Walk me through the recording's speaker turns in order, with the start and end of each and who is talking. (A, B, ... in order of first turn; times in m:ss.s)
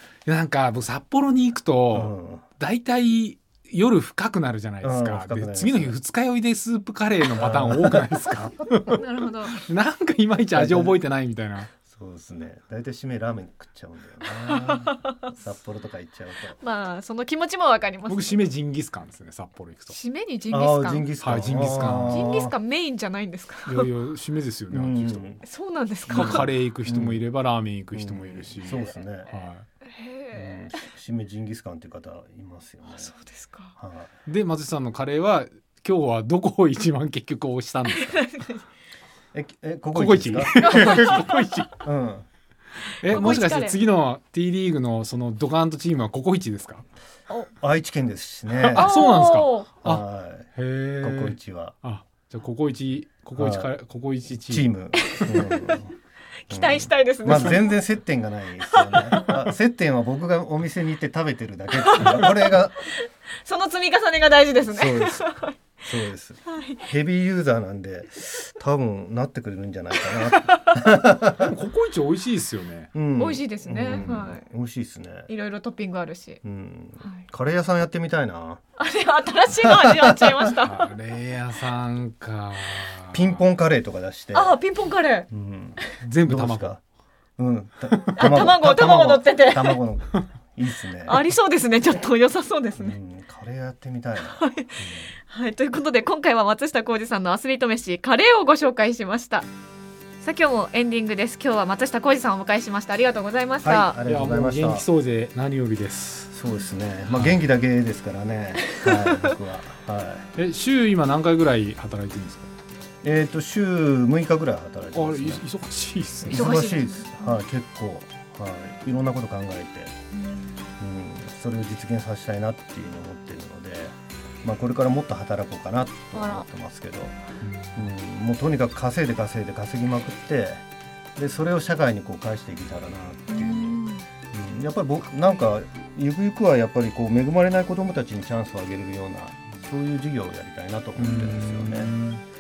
0:00.3-0:11.7 A
0:01.9-0:02.4 B
0:04.8-0:06.0 B
0:07.4-0:08.1 B
0:08.9-0:09.6 C
0:10.6-0:11.0 B
0:11.8-0:16.6 B
0:14.3-0:15.3 C
0:16.6-0:18.4 C
0:18.1-0:20.0 A
0:19.9-0:23.9 C
0:20.5-0:22.5 B
0:21.2-0:22.3 A
0:23.7-0:25.4 A
0:24.7-0:25.4 B
0:25.4-0:26.5 C
0:26.1-0:29.6 A
0:26.1-0:27.2 B
0:27.9-0:29.3 B
0:29.8-0:30.9 C
0:30.3-0:33.1 B
0:32.9-0:33.8 C
0:33.8-0:34.1 B
0:34.3-0:38.2 A
0:37.9-0:38.6 C
0:39.3-0:41.3 B
0:39.9-0:41.7 A
0:40.6-0:41.4 C
0:41.8-0:42.3 B
0:42.9-0:46.8 A
0:43.0-0:43.8 C
0:47.6-0:48.9 B
0:48.6-0:50.0 A
0:48.7-0:49.7 C
0:49.8-0:50.5 B
0:50.6-0:54.7 A
0:51.0-0:51.8 B
0:53.4-0:53.7 B
0:54.5-0:55.9 B
0:55.0-0:55.8 C
0:56.5-0:57.8 C
0:56.5-1:02.8 B
0:58.7-0:59.5 C
1:01.8-1:05.6 C
1:04.7-1:05.2 B
1:05.8-1:11.6 B
1:06.5-1:06.9 C
1:10.0-1:10.9 C
1:11.3-1:12.9 A
1:12.9-1:15.3 B
1:13.2-1:14.5 C
1:13.9-1:14.2 A
1:15.3-1:16.4 C
1:16.4-1:18.6 B
1:18.8-1:20.9 C
1:19.6-1:20.5 B
1:20.6-1:23.4 A
1:23.1-1:24.6 B
1:24.3-1:25.3 C
1:25.3-1:26.8 B
1:26.0-1:26.8 A
1:27.4-1:31.3 B
1:28.0-1:29.8 C
1:31.0-1:33.0 C
1:32.8-1:34.4 B
1:34.2-1:39.5 C
1:34.8-1:35.1 A
1:40.2-1:43.9 C
1:43.6-1:44.9 B
1:44.0-1:46.3 A
1:46.3-1:50.3 B
1:47.1-1:47.4 A
1:48.6-1:49.4 C
1:50.4-1:52.5 A
1:53.0-1:55.4 B
1:54.9-1:56.6 A
1:56.2-2:00.0 B
1:56.3-1:57.4 C
2:00.1-2:00.7 C
2:00.8-2:07.2 B
2:06.1-2:06.5 C
2:07.4-2:07.9 A
2:07.8-2:10.6 B
2:11.2-2:21.9 B
2:13.3-2:14.1 C
2:21.0-2:22.2 A